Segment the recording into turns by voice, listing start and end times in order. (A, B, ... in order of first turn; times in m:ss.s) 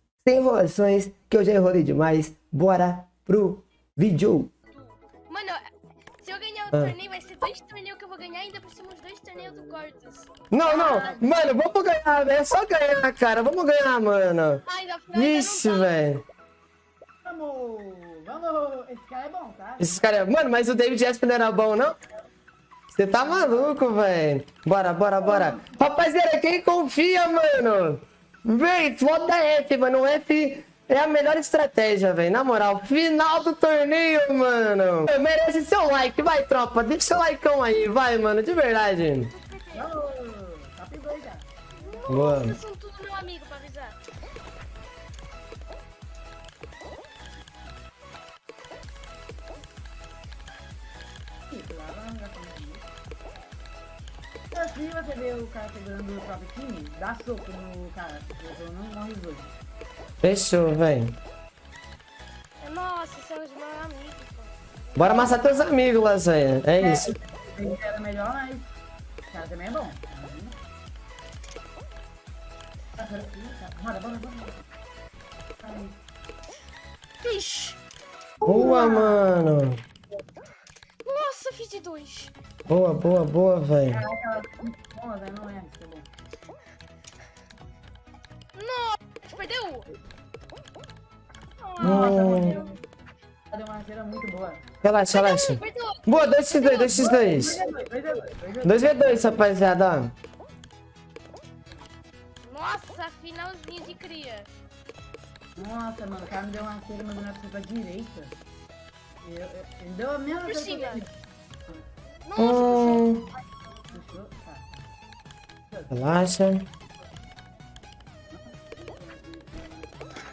0:00.2-0:04.5 A
0:05.3-0:05.7 B
0:06.2-0:11.2 B
0:09.4-0:11.5 C
0:10.5-0:16.2 A
0:14.7-0:16.0 B
0:17.2-0:19.9 C
0:19.8-0:22.0 A
0:22.9-0:39.3 A
0:23.2-0:23.9 C
0:25.2-0:25.7 C
0:39.3-0:39.9 B
0:39.7-0:42.0 C
0:41.9-0:44.0 B
0:42.1-0:42.6 A
0:51.5-0:52.9 C
0:54.5-0:59.5 C
1:00.2-1:01.2 A
1:02.6-1:05.4 B
1:05.0-1:07.1 A
1:06.8-1:08.7 C
1:09.3-1:10.6 C
1:13.0-1:14.6 C
1:15.6-1:16.0 C
1:17.2-1:17.8 B
1:18.4-1:19.3 C
1:18.4-1:19.8 A
1:21.0-1:22.3 B
1:22.7-1:24.0 A
1:23.9-1:26.1 C
1:28.6-1:29.9 B
1:31.6-1:32.7 B
1:31.8-1:32.8 C
1:31.8-1:32.6 A
1:33.5-1:34.6 C
1:34.8-1:37.6 A
1:35.1-1:37.0 B
1:36.9-1:39.5 C
1:38.6-1:40.1 A
1:42.4-1:44.5 B
1:45.6-1:48.4 C
1:49.2-1:51.1 C
1:50.4-1:51.0 B
1:52.3-1:53.1 B
1:52.4-1:53.3 A
1:53.9-1:54.9 C
1:55.9-1:56.7 A
1:58.3-1:59.7 C